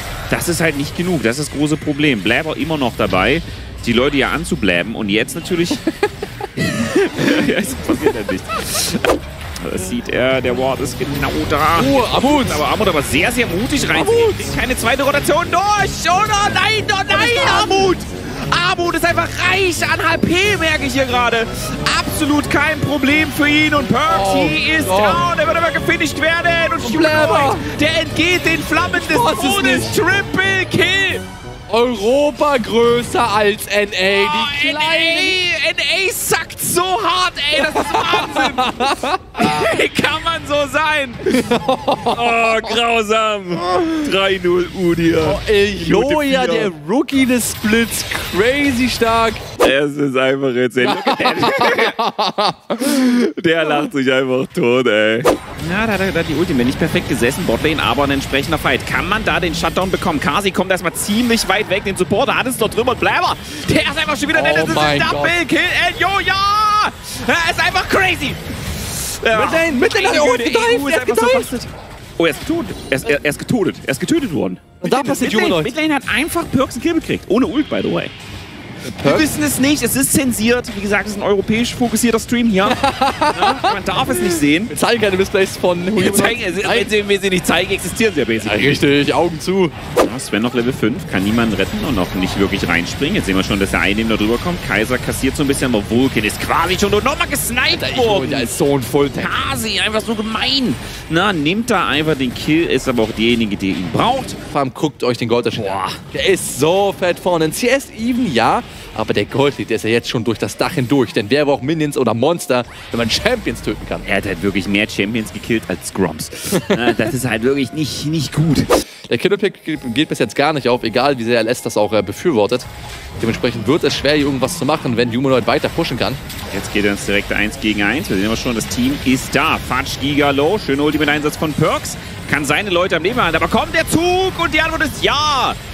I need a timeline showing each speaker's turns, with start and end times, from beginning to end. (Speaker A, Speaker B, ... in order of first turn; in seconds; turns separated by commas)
Speaker A: 0.3-5.8, Speaker A: 6.6-9.1, Speaker A: 9.6-31.2, Speaker B: 11.8-12.6, Speaker B: 13.9-14.5, Speaker B: 17.1-17.8, Speaker B: 24.1-25.2, Speaker B: 26.8-27.6, Speaker B: 29.0-29.9, Speaker B: 31.7-35.3, Speaker A: 34.1-38.8, Speaker B: 37.6-39.6, Speaker A: 39.3-46.7, Speaker B: 41.3-42.6, Speaker B: 45.2-49.4, Speaker A: 49.6-52.0, Speaker B: 50.8-53.0, Speaker A: 52.8-71.7, Speaker B: 64.3-65.3, Speaker B: 69.3-71.6, Speaker A: 72.2-78.1, Speaker B: 74.8-75.7, Speaker B: 78.8-79.3, Speaker A: 79.0-84.7, Speaker B: 82.6-86.9, Speaker A: 86.0-88.8, Speaker B: 88.4-89.7, Speaker A: 90.0-98.5, Speaker B: 97.7-99.3, Speaker A: 99.2-104.4, Speaker B: 104.5-114.0, Speaker A: 105.5-106.0, Speaker A: 114.0-118.8, Speaker B: 116.5-116.8, Speaker B: 119.1-122.7, Speaker B: 123.2-126.2, Speaker A: 126.5-135.6